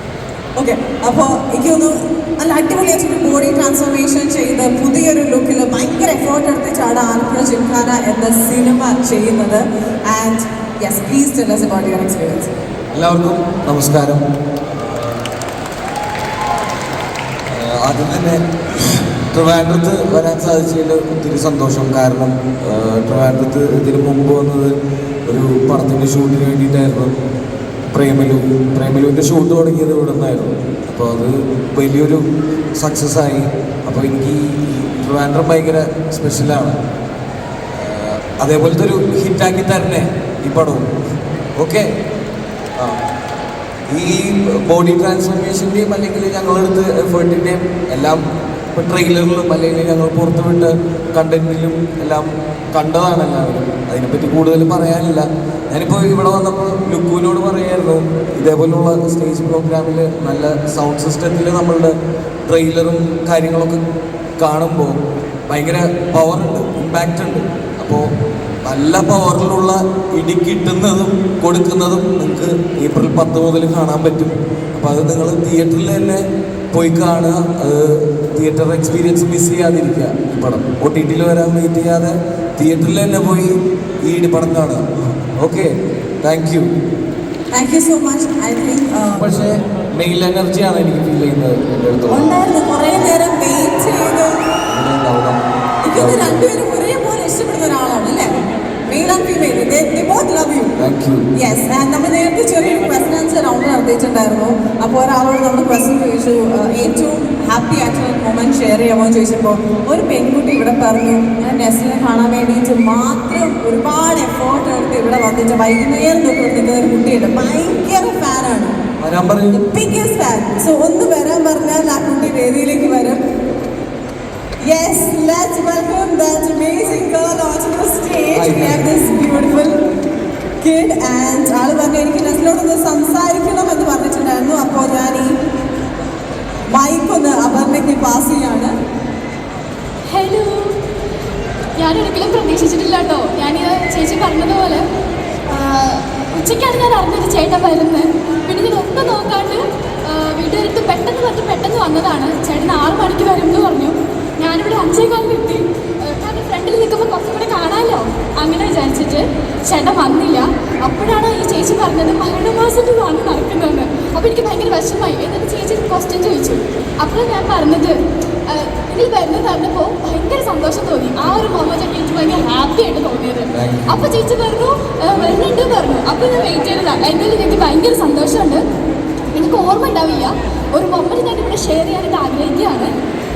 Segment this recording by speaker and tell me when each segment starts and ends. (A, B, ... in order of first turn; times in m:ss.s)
0:00.6-0:12.5 A
0:12.9-0:14.2 B
0:14.7-0:15.1 B
0:17.5-0:27.1 B
0:27.9-0:32.2 B
0:32.7-0:36.8 B
0:37.7-0:40.9 B
0:41.6-0:41.9 B
0:43.9-1:01.9 B
1:02.4-1:03.8 B
1:04.4-1:08.0 B
1:08.6-1:23.5 B
1:24.0-1:25.7 B
1:26.2-1:26.7 B
1:27.5-1:29.2 A
1:29.1-1:32.3 B
1:32.1-1:34.4 A
1:34.7-1:35.4 B
1:35.8-1:38.3 A
1:35.9-1:36.3 B
1:38.9-1:40.7 A
1:40.8-1:41.3 B
1:41.3-1:58.8 A
1:59.0-1:59.6 B
1:59.5-2:03.2 A
2:04.6-2:09.8 A
2:08.4-2:08.8 B
2:10.6-2:15.3 A
2:16.7-2:18.7 A
2:20.1-2:20.8 C
2:21.8-2:24.8 C
2:25.5-2:58.6 C
2:53.5-2:54.1 B
2:59.3-3:02.9 C